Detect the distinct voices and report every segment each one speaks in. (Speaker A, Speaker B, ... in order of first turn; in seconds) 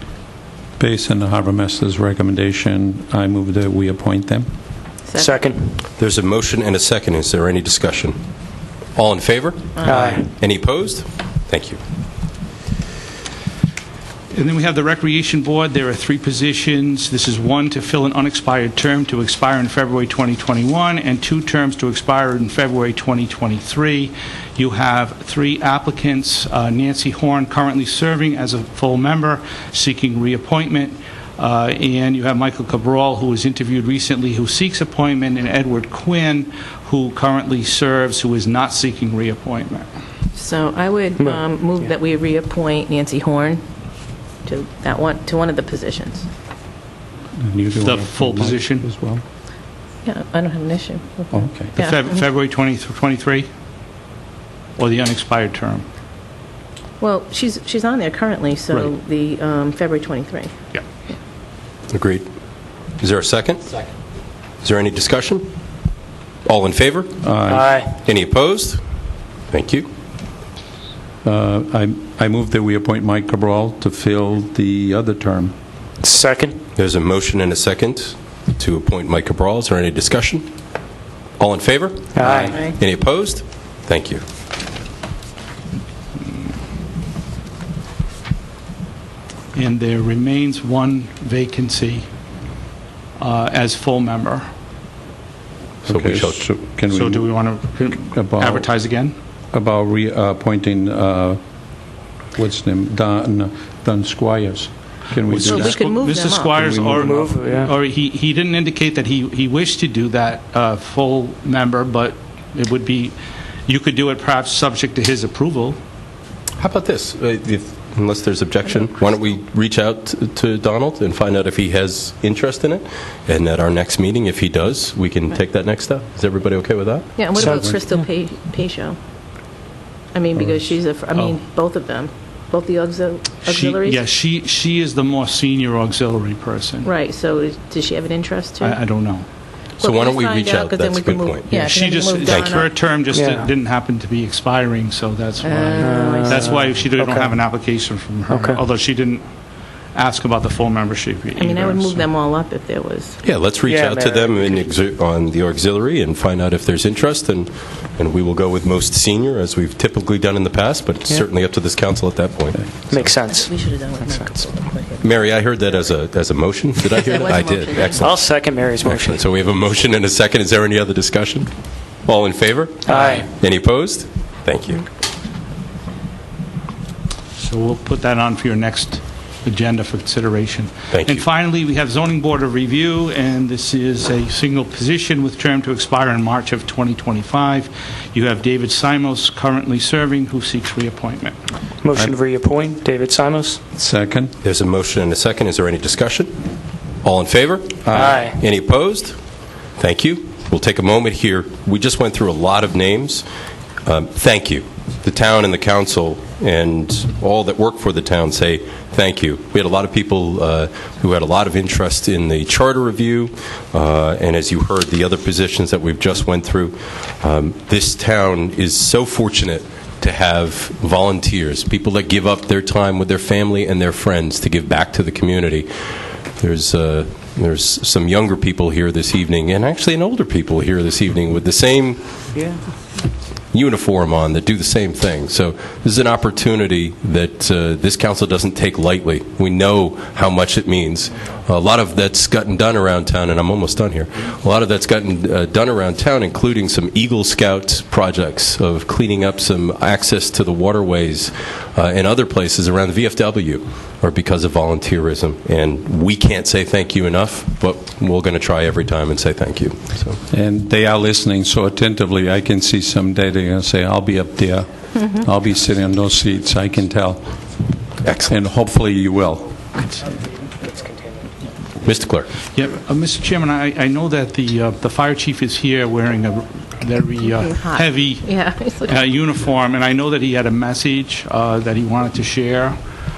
Speaker A: 0.8-4.5, 47.4-49.2, 51.3-51.7, 67.2-67.7, 71.2-75.5, 95.8-97.3, 97.9-98.7, 99.5-101.4, 102.3-105.9, 106.5-107.2, 127.4-127.8, 193.7-194.3, 197.8-198.2, 260.3-267.3, 268.3-269.5
Speaker B: 5.1-5.3, 9.8-10.0, 40.3-43.6, 44.4-46.3, 50.0-52.2, 57.0-60.5, 105.5-106.5, 127.2-129.0, 130.1-134.0, 136.8-138.8, 139.8-142.7, 145.4-146.7, 151.4-153.2, 163.3-165.7, 166.9-168.0, 277.3-279.0
Speaker C: 5.2-5.8, 9.8-10.3, 41.2-41.8, 67.5-68.0, 76.0-76.6, 82.1-82.6, 106.9-107.7, 143.1-143.5, 145.8-147.4, 148.3-148.6, 153.6-154.7, 162.9-164.4, 167.9-169.2, 172.8-173.3, 191.8-193.6, 197.9-198.4
Speaker D: 6.0-8.2, 8.9-11.8, 61.9-62.2, 63.0-63.7, 64.6-65.5, 66.4-67.3, 67.9-68.8, 69.5-69.9, 76.7-80.5, 81.4-84.2, 95.9-96.4, 116.6-127.6, 139.8-141.5, 142.2-142.7, 153.2-162.8, 165.0-171.5, 172.0-174.8, 180.9-181.2, 194.4-196.4, 197.0-199.2, 199.8-203.2, 203.8-225.7, 226.4-232.0, 233.5-260.2, 268.0-268.3, 271.8-272.3
Speaker E: 14.3-39.9, 47.8-48.9, 51.7-53.5, 54.8-55.9, 89.5-92.1, 93.2-94.5, 96.9-99.2, 105.3-115.8, 131.1-131.4, 133.4-136.9, 138.6-139.3, 141.5-149.3, 149.9-152.1, 177.4-191.4, 272.5-282.8